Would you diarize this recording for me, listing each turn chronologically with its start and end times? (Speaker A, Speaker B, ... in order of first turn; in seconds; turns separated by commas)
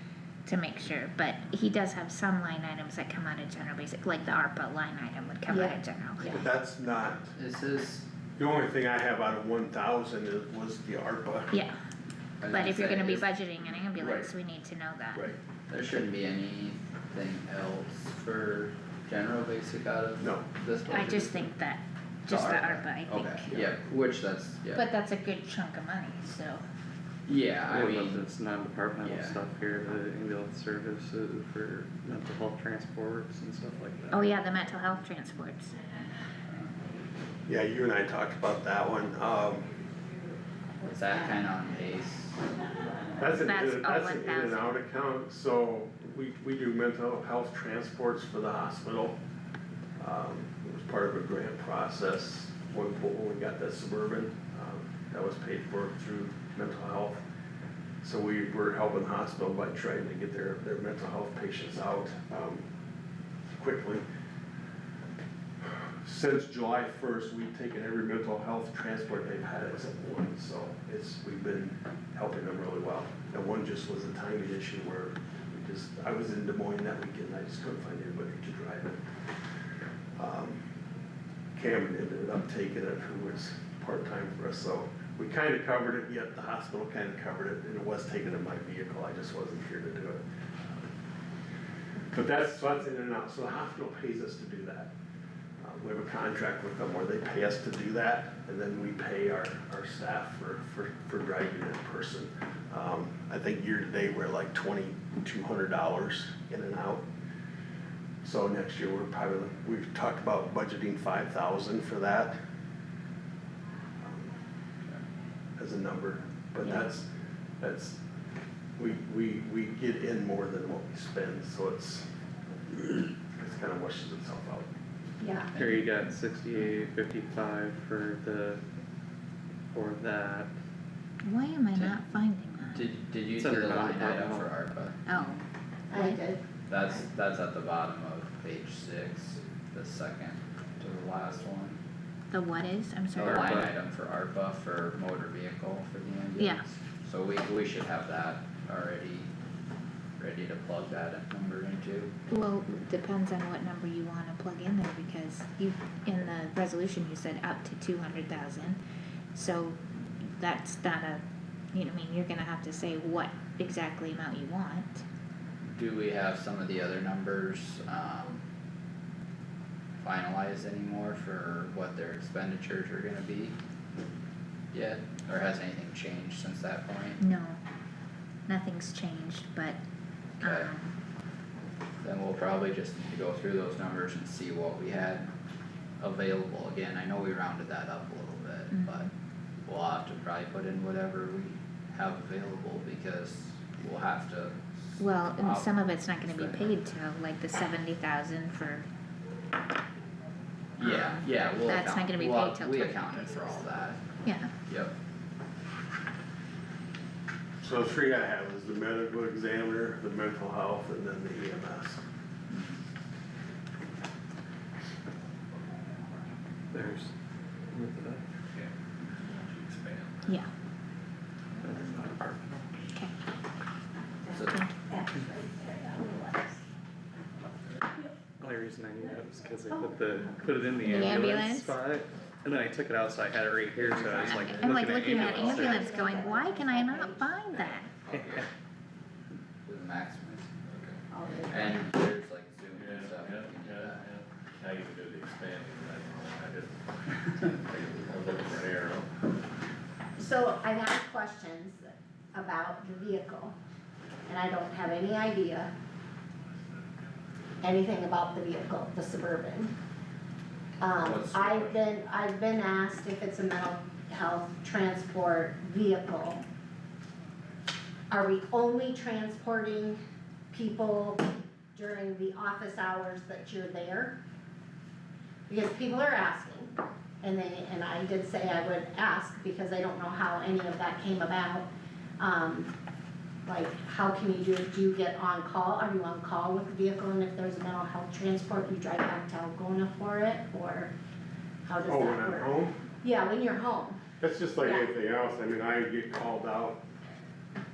Speaker A: 0.5-6.3, Speaker B: 5.5-6.4, Speaker C: 6.2-7.3, Speaker D: 7.4-8.1, Speaker C: 8.4-11.5, Speaker D: 12.4-13.3, Speaker A: 12.5-15.3, Speaker D: 13.9-14.3, Speaker D: 15.7-21.4, Speaker C: 20.2-20.5, Speaker A: 20.9-23.7, Speaker D: 22.3-24.8, Speaker A: 24.8-26.6, Speaker D: 27.3-28.2, Speaker E: 27.7-34.4, Speaker D: 29.0-29.4, Speaker A: 34.1-35.8, Speaker C: 37.5-39.7, Speaker D: 40.8-42.5, Speaker C: 43.2-49.2, Speaker A: 43.4-44.8, Speaker C: 50.0-57.2, Speaker C: 58.0-62.6, Speaker C: 63.6-64.0, Speaker C: 66.0-79.0, Speaker C: 80.2-80.6, Speaker C: 81.5-90.9, Speaker C: 92.1-94.9, Speaker C: 95.6-107.0, Speaker C: 108.2-112.3, Speaker C: 114.0-114.3, Speaker C: 115.6-117.1, Speaker C: 117.6-118.0, Speaker C: 118.8-122.1, Speaker C: 122.7-124.7, Speaker B: 125.2-125.5, Speaker E: 125.5-128.6, Speaker E: 129.7-130.5, Speaker A: 131.2-132.8, Speaker D: 132.7-135.0, Speaker E: 133.3-134.5, Speaker A: 135.1-135.4, Speaker B: 135.9-136.4, Speaker D: 136.7-141.8, Speaker A: 142.3-143.6, Speaker D: 143.2-149.3, Speaker E: 143.2-143.7, Speaker A: 146.4-146.6, Speaker D: 150.2-152.1, Speaker A: 152.3-158.8, Speaker A: 159.3-165.0, Speaker D: 165.7-168.4, Speaker D: 170.0-173.6, Speaker D: 174.7-177.2, Speaker A: 177.2-177.6, Speaker A: 178.5-179.8, Speaker D: 180.4-180.7, Speaker A: 180.4-180.9, Speaker D: 182.0-185.3, Speaker D: 186.0-189.1, Speaker A: 188.7-189.1, Speaker D: 189.6-196.7, Speaker A: 195.0-198.9, Speaker D: 200.8-204.1, Speaker A: 200.8-203.1, Speaker A: 204.2-204.5, Speaker D: 204.7-204.9, Speaker C: 207.6-212.0, Speaker D: 212.5-212.8, Speaker E: 216.7-217.1, Speaker E: 217.7-218.2, Speaker F: 218.4-220.4, Speaker E: 221.6-222.6, Speaker D: 224.3-224.6, Speaker B: 224.9-226.6, Speaker E: 228.4-235.9, Speaker B: 229.7-231.2, Speaker A: 230.9-231.8, Speaker D: 233.9-235.7, Speaker A: 234.5-237.9, Speaker B: 234.9-237.3, Speaker D: 237.5-238.5, Speaker D: 239.7-240.5, Speaker F: 240.7-241.0, Speaker B: 241.1-241.8, Speaker D: 241.5-244.1, Speaker F: 242.7-249.1, Speaker B: 250.2-253.5, Speaker B: 254.3-255.7, Speaker B: 257.6-259.7, Speaker B: 260.8-266.4, Speaker D: 261.0-261.8, Speaker B: 268.1-270.0, Speaker B: 270.5-274.2, Speaker B: 275.5-281.7, Speaker B: 282.2-282.7, Speaker B: 283.4-290.9, Speaker B: 291.7-294.0, Speaker C: 291.8-292.8, Speaker C: 294.2-296.8